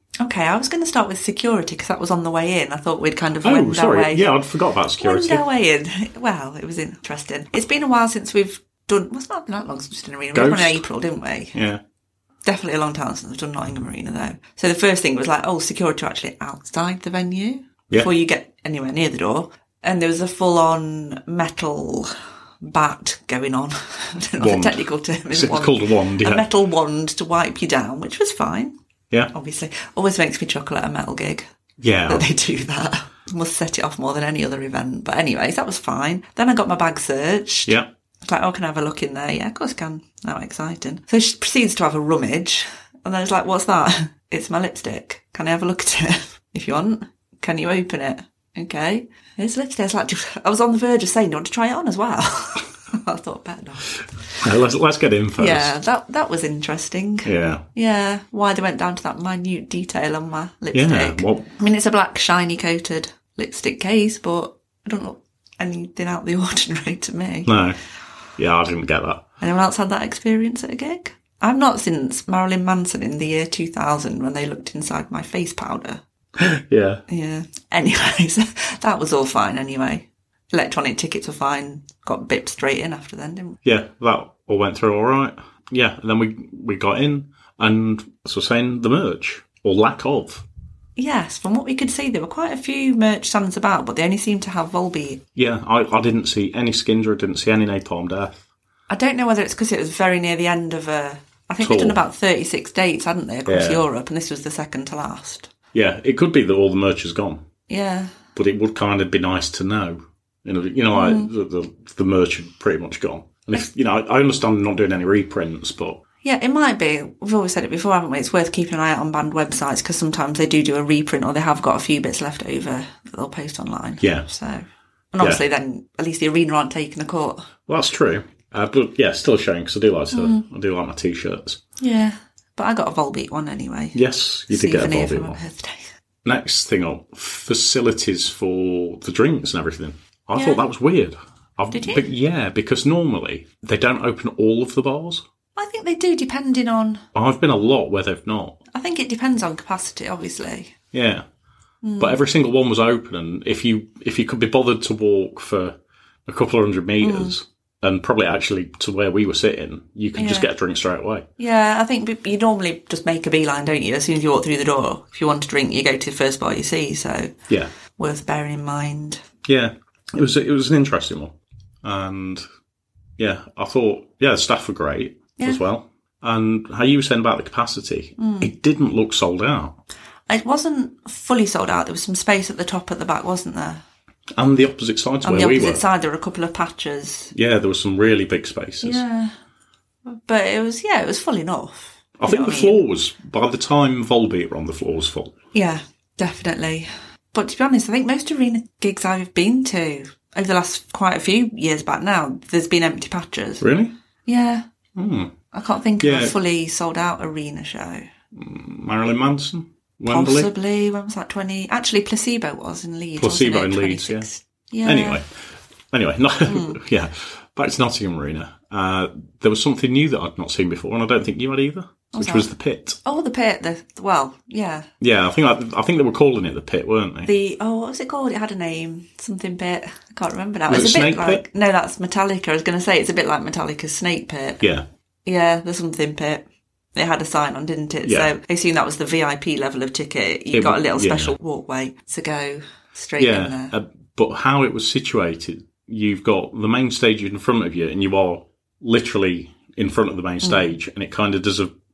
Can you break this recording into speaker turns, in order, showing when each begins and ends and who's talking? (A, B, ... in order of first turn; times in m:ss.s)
0:00.2-0:04.3 A
0:03.4-0:05.4 B
0:05.0-0:11.5 A
0:10.3-0:10.8 B
0:11.5-0:11.8 B
0:12.4-0:22.1 A
0:22.6-0:28.7 A
0:24.4-0:26.4 B
0:29.3-0:31.4 A
0:31.8-0:32.2 B
0:32.1-0:54.5 A
0:54.4-0:55.8 B
0:55.4-1:07.5 A
0:57.2-0:57.6 B
1:00.7-1:01.5 B
1:07.4-1:07.8 B
1:08.4-1:09.3 B
1:09.4-1:16.0 A
1:16.4-1:17.0 B
1:17.1-1:23.6 A
1:23.6-1:30.4 B
1:31.0-1:35.2 A
1:35.3-1:38.4 B
1:38.9-1:45.5 A
1:41.6-1:42.0 B
1:43.4-1:43.8 B
1:45.7-1:47.4 B
1:47.7-1:48.1 A
1:48.3-1:56.0 B
1:50.9-1:51.3 A
1:56.2-2:07.5 A
2:04.0-2:04.3 B
2:07.6-2:11.6 B
2:10.1-2:10.4 A
2:11.8-2:14.0 A
2:13.9-2:15.4 B
2:14.5-2:15.9 A
2:16.2-2:25.2 B
2:20.3-2:20.6 A
2:21.7-2:22.0 A
2:25.6-2:27.0 A
2:27.1-2:28.6 B
2:28.7-2:30.7 A
2:30.9-2:31.2 B
2:31.8-2:32.2 A
2:32.0-2:41.3 B
2:37.0-2:37.4 A
2:40.2-2:40.5 A
2:41.4-2:47.3 A
2:47.9-2:49.2 A
2:49.4-2:52.4 B
2:53.2-2:59.8 B
2:58.2-2:58.5 A
3:00.3-3:03.8 A
3:04.4-3:05.8 B
3:05.2-3:07.3 A
3:07.3-3:09.0 B
3:08.8-3:09.3 A
3:10.1-3:12.8 A
3:12.2-3:15.3 B
3:15.5-3:23.6 A
3:23.6-3:23.9 B
3:24.2-3:24.6 A
3:25.0-3:25.3 B
3:25.5-3:28.1 A
3:26.0-3:26.3 B
3:28.3-3:30.5 B
3:30.1-3:35.2 A
3:33.2-3:34.3 B
3:34.8-3:35.3 B
3:35.9-3:43.0 B
3:36.5-3:36.8 A
3:42.1-3:42.5 A
3:43.0-3:44.9 A
3:45.0-3:47.3 B
3:47.2-3:54.6 A
3:50.7-3:51.4 B
3:54.6-3:54.8 B
3:55.2-4:03.7 A
3:58.0-3:58.3 B
4:00.5-4:01.3 B
4:03.2-4:11.7 B
4:10.4-4:10.7 A